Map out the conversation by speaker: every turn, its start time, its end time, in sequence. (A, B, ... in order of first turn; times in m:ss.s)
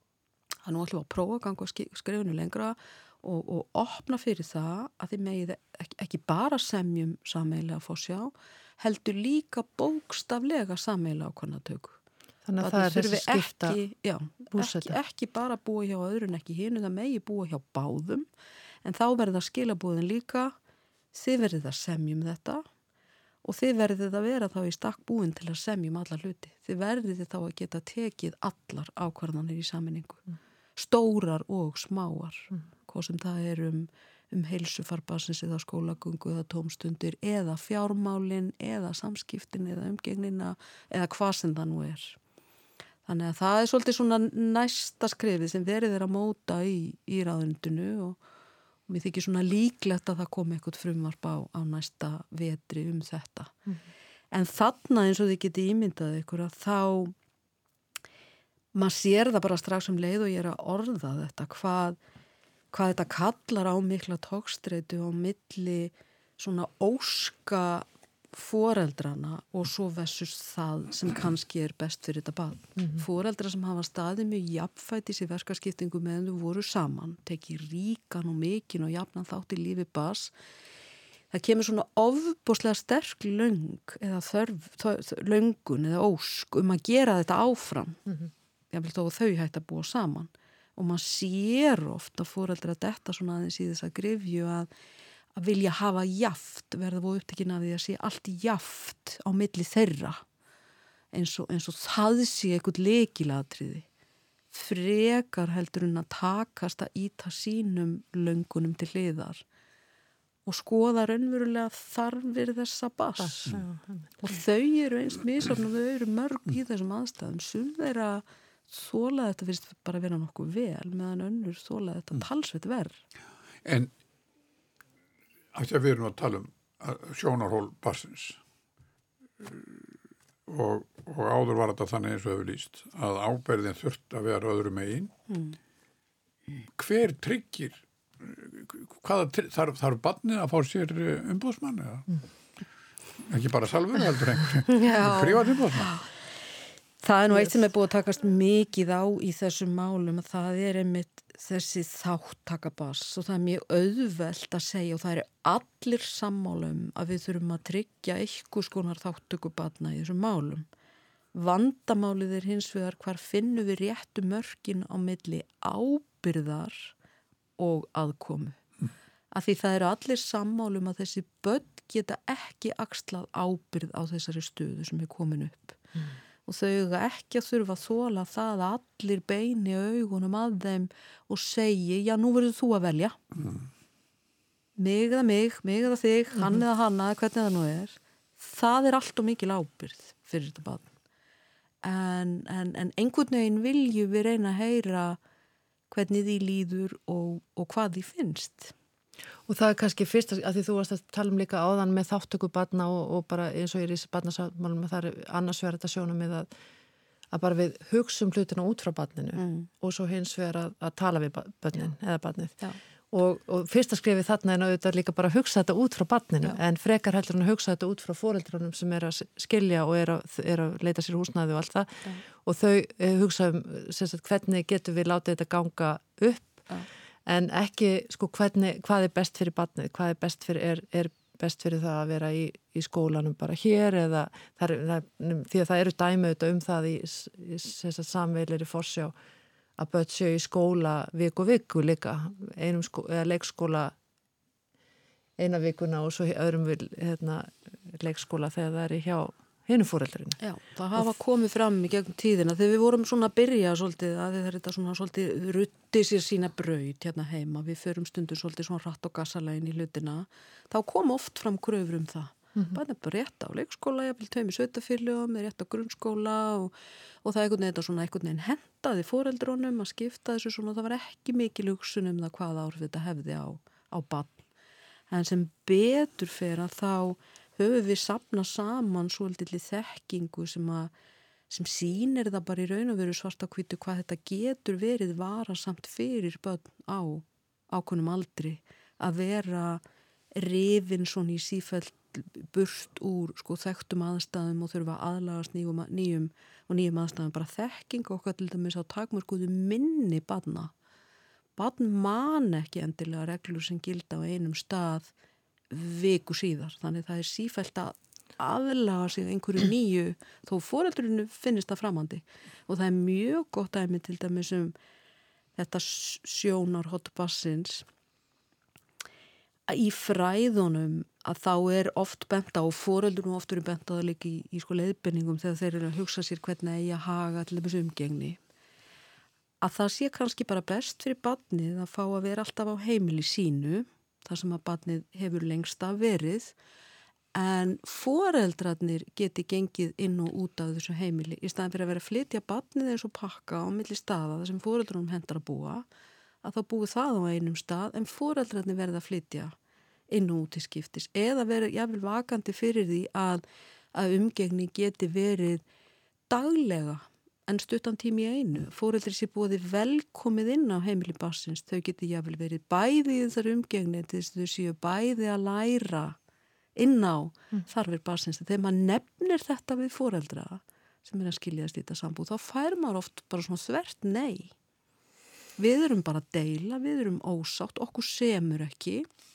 0:00.6-0:12.0 A
0:12.4-0:13.8 B
0:12.6-0:18.3 A
0:14.5-0:15.0 B
0:18.8-0:20.5 A
0:21.1-0:22.6 A
0:23.4-0:30.2 A
0:30.8-0:42.2 A
0:43.0-0:48.2 A
0:48.9-0:53.6 A
0:54.3-0:57.1 A
0:58.7-1:02.0 A
1:02.7-1:20.3 A
1:21.3-1:28.0 A
1:28.7-1:34.7 A
1:35.4-1:40.2 A
1:41.1-1:43.9 A
1:44.5-1:49.4 A
1:50.4-1:53.6 A
1:53.2-1:54.2 B
1:54.2-2:03.0 A
2:03.6-2:03.9 C
2:05.5-2:08.4 C
2:09.4-2:09.9 C
2:10.5-2:15.1 C
2:15.3-2:15.6 A
2:16.7-2:22.2 C
2:23.2-2:25.9 C
2:24.7-2:26.0 A
2:27.0-2:40.7 A
2:41.3-2:46.9 A
2:47.6-2:48.6 A
2:49.3-2:55.8 A
2:56.4-3:03.2 A
3:04.8-3:10.9 A
3:11.8-3:15.2 A
3:15.9-3:18.7 A
3:19.5-3:26.5 B
3:27.3-3:46.6 B
3:29.4-3:29.7 A
3:47.2-3:59.1 B
3:59.8-4:03.9 B
4:05.4-4:10.4 B
4:10.4-4:26.7 A
4:27.2-4:34.4 A
4:35.1-4:40.9 A
4:41.5-4:49.8 A
4:50.4-5:00.7 A
5:01.6-5:05.1 A
5:05.7-5:14.7 A
5:15.6-5:17.9 A
5:19.7-5:28.4 A
5:29.6-5:36.5 A
5:37.3-5:45.9 A
5:46.4-5:49.5 A
5:50.1-5:53.4 A
5:53.9-5:55.6 A
5:56.3-6:06.2 A
6:06.8-6:14.5 A
6:15.6-6:19.0 A